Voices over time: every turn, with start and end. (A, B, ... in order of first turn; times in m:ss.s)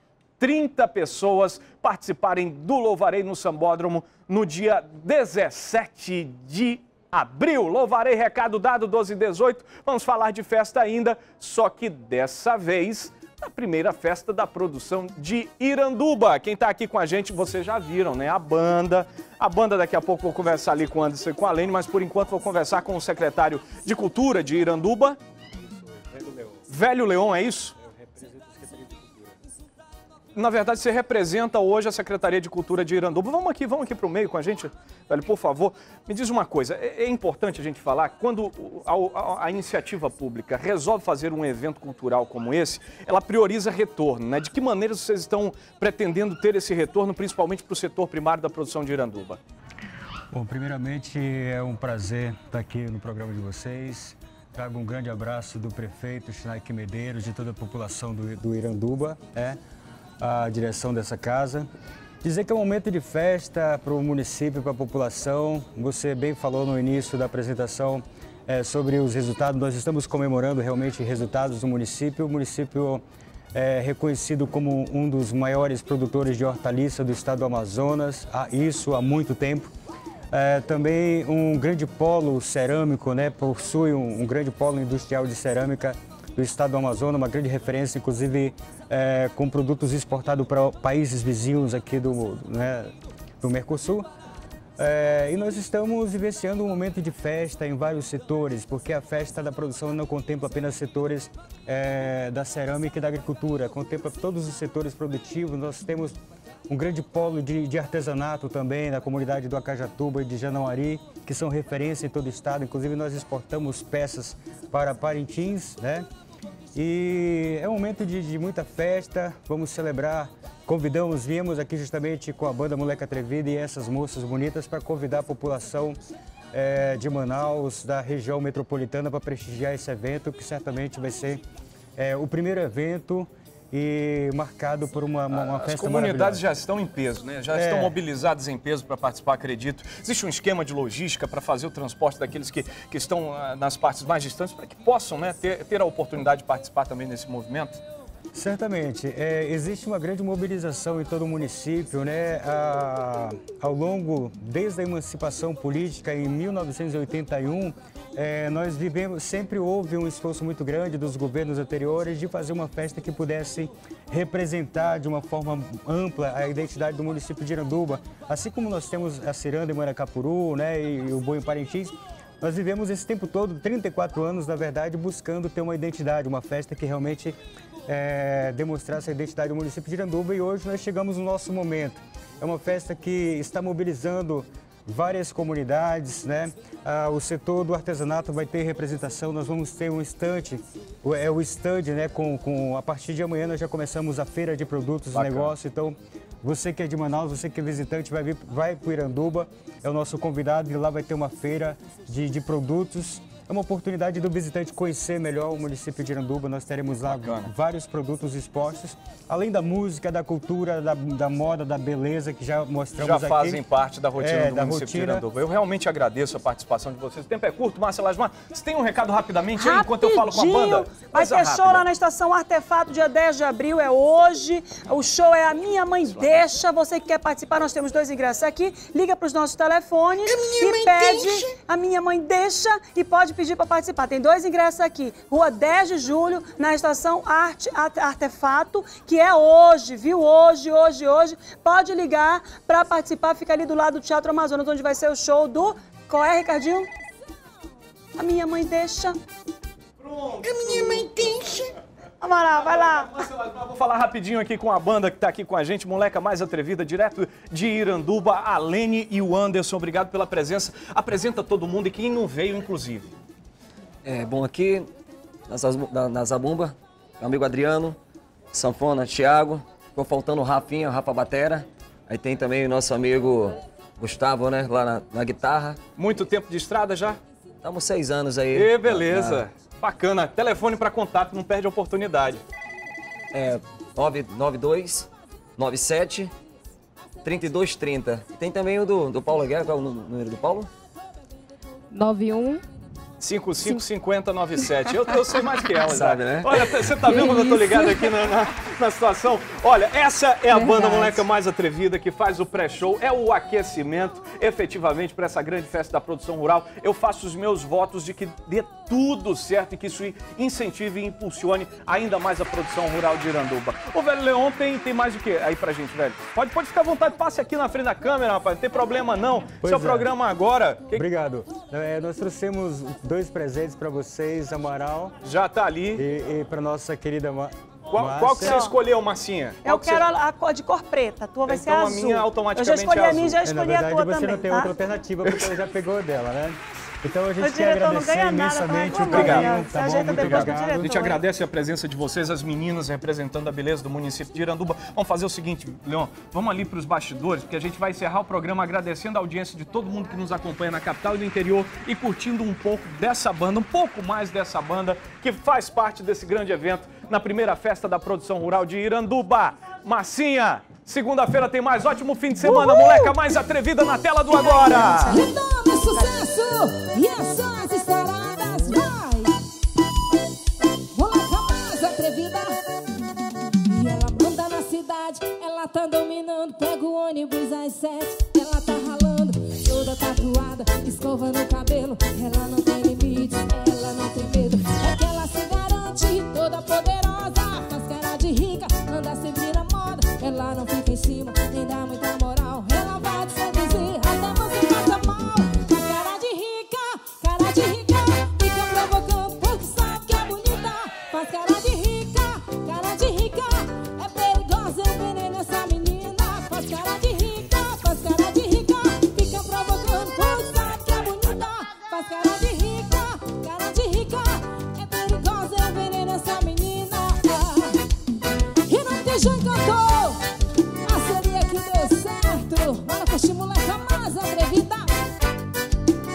0:00.4-0:25.2 A
0:25.9-0:26.6 B
0:26.7-0:27.8 A
0:27.9-0:29.2 B
0:30.3-0:49.4 A
0:50.3-0:59.6 B
1:00.2-1:01.7 B
1:02.2-1:13.0 B
1:13.5-1:19.7 B
1:20.3-1:34.1 B
1:34.8-1:46.2 B
1:46.7-1:56.1 B
1:56.7-2:06.0 B
2:06.5-2:11.4 B
2:12.0-2:16.4 B
2:15.3-2:27.8 A
2:17.5-2:17.9 B
2:28.3-3:33.6 B
3:15.1-3:15.5 A
3:27.0-3:27.5 A
3:33.0-3:41.8 A
3:34.2-3:35.2 B
3:39.6-4:06.9 C
4:08.2-4:09.2 C
4:10.0-4:11.7 A
4:12.2-4:13.1 C
4:12.5-4:23.1 A
4:24.0-4:24.9 D
4:25.5-4:28.0 D
4:28.5-4:35.8 D
4:36.0-4:37.2 A
4:37.6-4:39.4 D
4:38.5-4:42.4 A
4:43.3-4:46.3 D
4:47.2-4:50.7 D
4:51.9-4:52.6 E
4:53.2-5:21.0 A
4:55.8-4:57.0 D
4:57.0-4:58.1 E
5:00.5-5:01.2 E
5:19.6-5:20.1 B
5:20.9-5:25.1 B
5:25.2-5:26.0 A
5:26.0-5:28.6 B
5:27.9-5:30.1 A
5:28.4-5:28.7 C
5:29.6-5:34.7 C
5:31.4-5:33.4 A
5:33.4-5:40.9 B
5:37.4-5:41.2 C
5:39.1-5:39.6 A
5:40.1-6:05.2 A
6:02.4-6:03.1 C
6:04.3-6:05.3 C
6:05.0-6:09.3 F
6:10.9-6:12.6 F
6:13.6-6:57.8 F
6:58.6-7:00.2 F
7:00.8-7:05.0 F